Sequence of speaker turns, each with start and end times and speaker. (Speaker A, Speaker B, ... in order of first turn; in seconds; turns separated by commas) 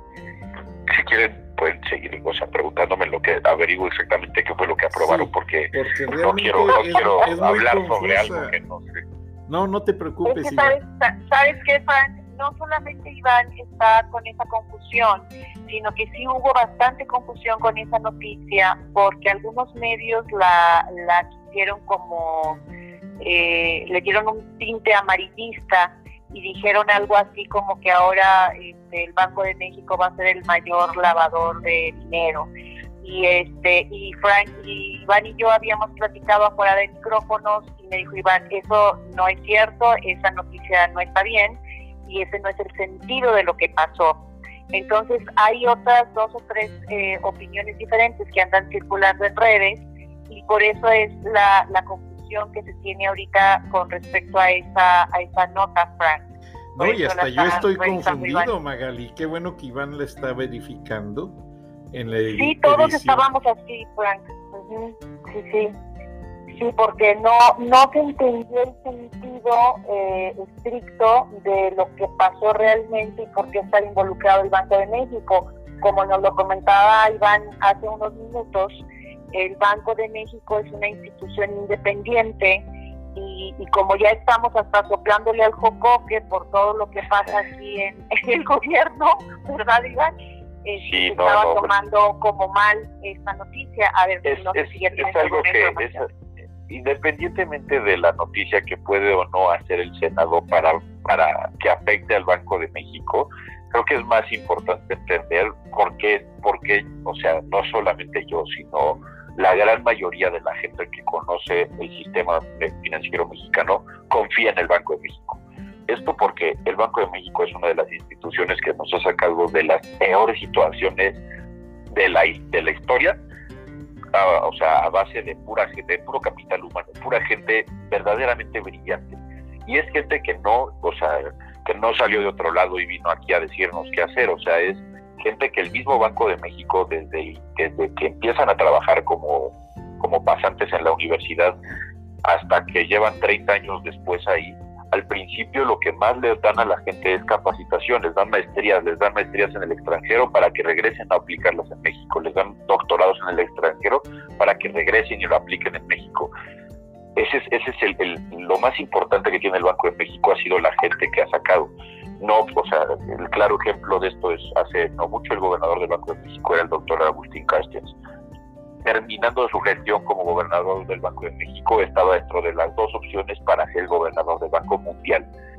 Speaker A: 0.9-9.0, Speaker B: 4.9-8.6, Speaker B: 9.5-10.8, Speaker C: 10.2-22.6, Speaker C: 23.2-32.5, Speaker C: 33.0-56.2, Speaker B: 56.8-61.4, Speaker C: 56.8-58.5, Speaker B: 61.9-63.2, Speaker C: 62.3-65.7, Speaker C: 66.5-90.1, Speaker C: 90.7-96.0, Speaker A: 90.8-91.7, Speaker A: 94.3-96.0, Speaker A: 96.7-121.2, Speaker A: 121.9-123.2, Speaker A: 124.1-141.6, Speaker A: 142.2-156.3, Speaker A: 157.2-167.9, Speaker A: 168.8-175.3